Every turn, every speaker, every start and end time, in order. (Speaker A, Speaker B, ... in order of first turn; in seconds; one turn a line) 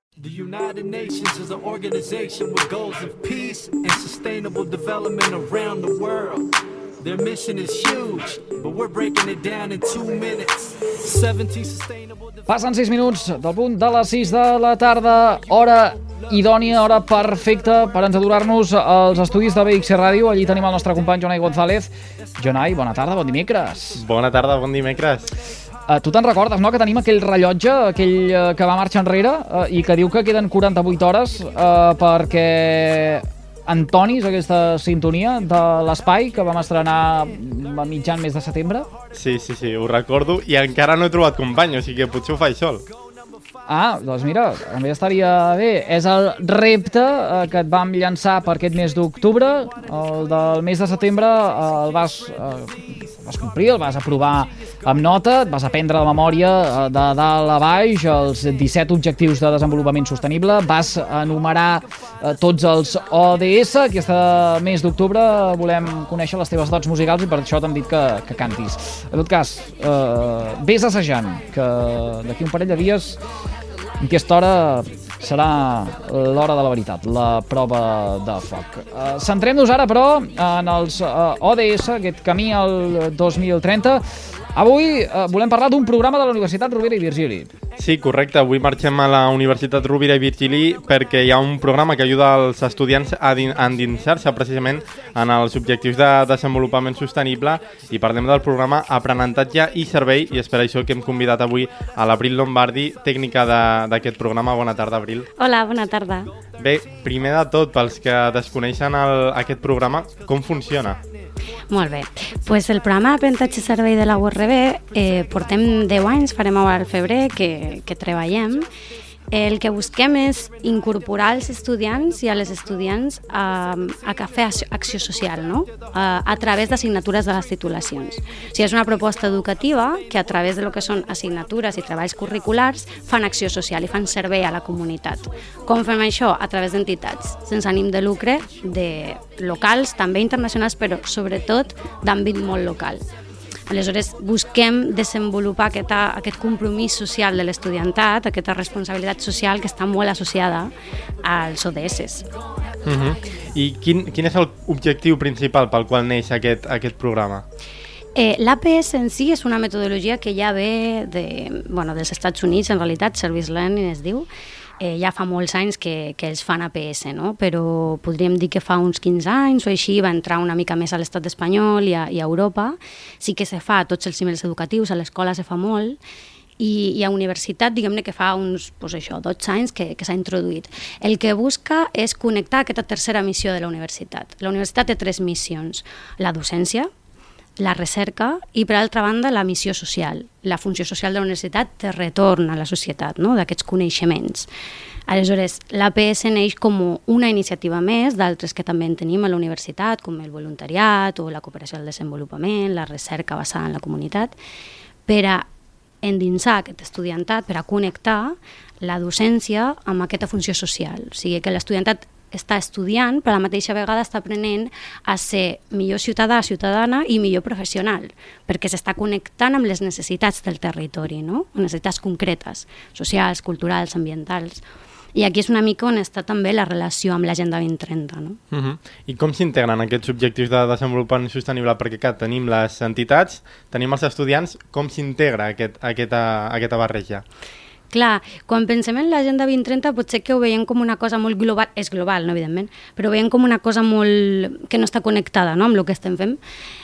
Speaker A: 0.2-12.4
Speaker B: 12.5-24.0
Speaker C: 23.9-25.4
Speaker B: 25.9-38.9
Speaker C: 39.1-42.9
Speaker B: 43.7-73.2
Speaker B: 74.0-84.0
Speaker B: 84.5-87.5
Speaker C: 87.8-105.3
Speaker D: 105.4-106.3
Speaker C: 106.6-111.0
Speaker D: 111.7-118.7
Speaker D: 119.3-143.0
Speaker D: 143.7-152.3
Speaker C: 152.8-157.5
Speaker D: 158.2-164.3
Speaker D: 164.8-176.0
Speaker D: 176.6-186.9
Speaker D: 187.6-194.5
Speaker D: 195.1-204.4
Speaker D: 205.1-205.5
Speaker D: 206.0-224.6
Speaker D: 225.1-228.4
Speaker C: 228.5-237.2
Speaker D: 237.9-246.4